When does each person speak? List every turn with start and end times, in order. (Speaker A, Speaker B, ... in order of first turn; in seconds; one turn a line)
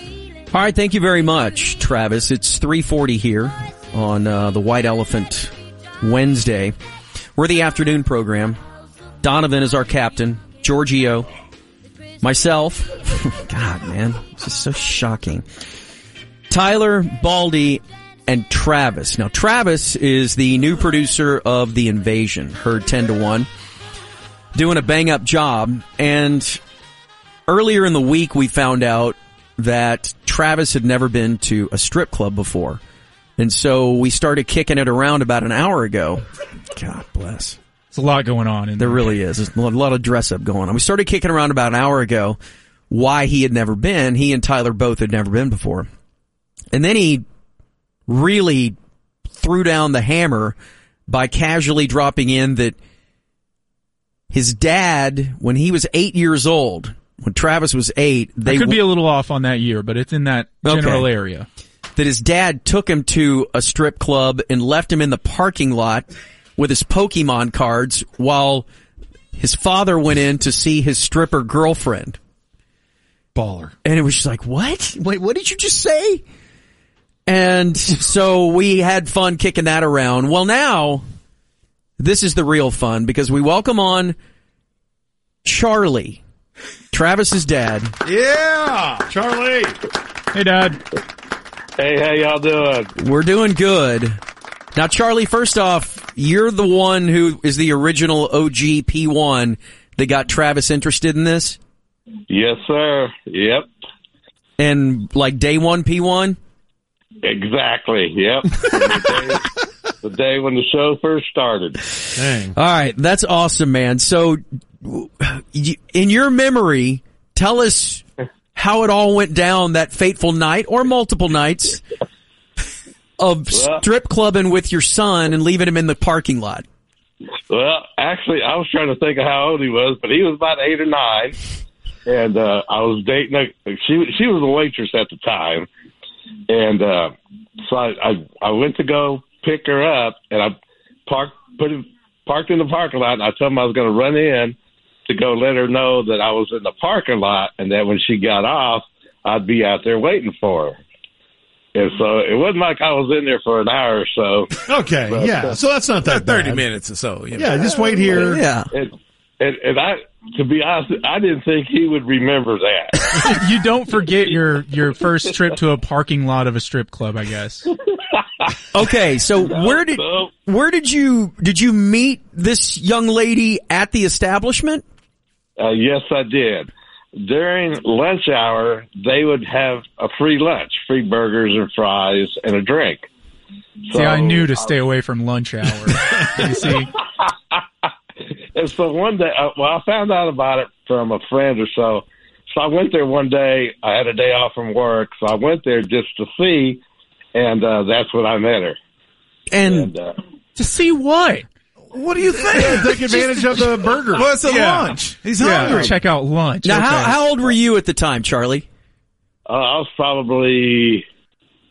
Speaker A: 0.5-6.8
Speaker A: 7.4-8.6
Speaker A: 9.2-11.3
Speaker A: 12.2-15.4
Speaker A: 16.5-23.5
Speaker A: 24.5-26.6
Speaker A: 27.5-32.8
Speaker A: 33.4-37.6
Speaker B: 37.9-39.2
Speaker A: 38.8-42.4
Speaker A: 42.9-45.9
Speaker A: 46.7-47.2
Speaker A: 48.1-48.8
Speaker A: 49.3-50.5
Speaker A: 51.1-52.8
Speaker A: 54.3-58.8
Speaker B: 58.5-61.5
Speaker A: 60.6-61.1
Speaker A: 62.0-68.7
Speaker A: 69.3-72.2
Speaker C: 73.3-73.7
Speaker A: 73.8-76.2
Speaker A: 77.3-81.0
Speaker A: 82.0-84.2
Speaker A: 85.5-86.2
Speaker A: 86.9-88.0
Speaker D: 88.0-89.1
Speaker C: 89.1-89.8
Speaker B: 90.3-90.8
Speaker E: 91.8-92.9
Speaker A: 93.0-94.2
Speaker A: 94.7-101.6
Speaker E: 102.3-103.7
Speaker A: 104.6-106.4
Speaker E: 107.2-111.8
Speaker C: 112.2-112.6
Speaker A: 112.5-121.8
Speaker A: 123.2-126.7
Speaker E: 123.5-123.8
Speaker E: 127.5-131.4
Speaker E: 132.1-135.7
Speaker E: 136.5-140.6
Speaker E: 141.1-144.6
Speaker E: 145.1-150.8
Speaker E: 151.8-155.5
Speaker C: 154.7-156.7
Speaker D: 156.0-158.3
Speaker C: 157.3-158.4
Speaker A: 158.1-158.7
Speaker E: 158.2-163.4
Speaker B: 163.1-167.7
Speaker E: 168.1-168.6
Speaker A: 168.7-174.8
Speaker E: 169.4-170.3
Speaker E: 175.6-183.1
Speaker E: 183.9-184.7
Speaker B: 183.9-186.9
Speaker E: 187.0-187.9
Speaker E: 188.5-196.8
Speaker E: 197.3-198.8
Speaker A: 199.5-199.9
Speaker E: 199.6-200.2
Speaker B: 200.6-201.5
Speaker D: 201.9-206.0
Speaker C: 202.4-204.3
Speaker B: 204.4-207.2
Speaker A: 206.6-208.7
Speaker E: 209.5-211.1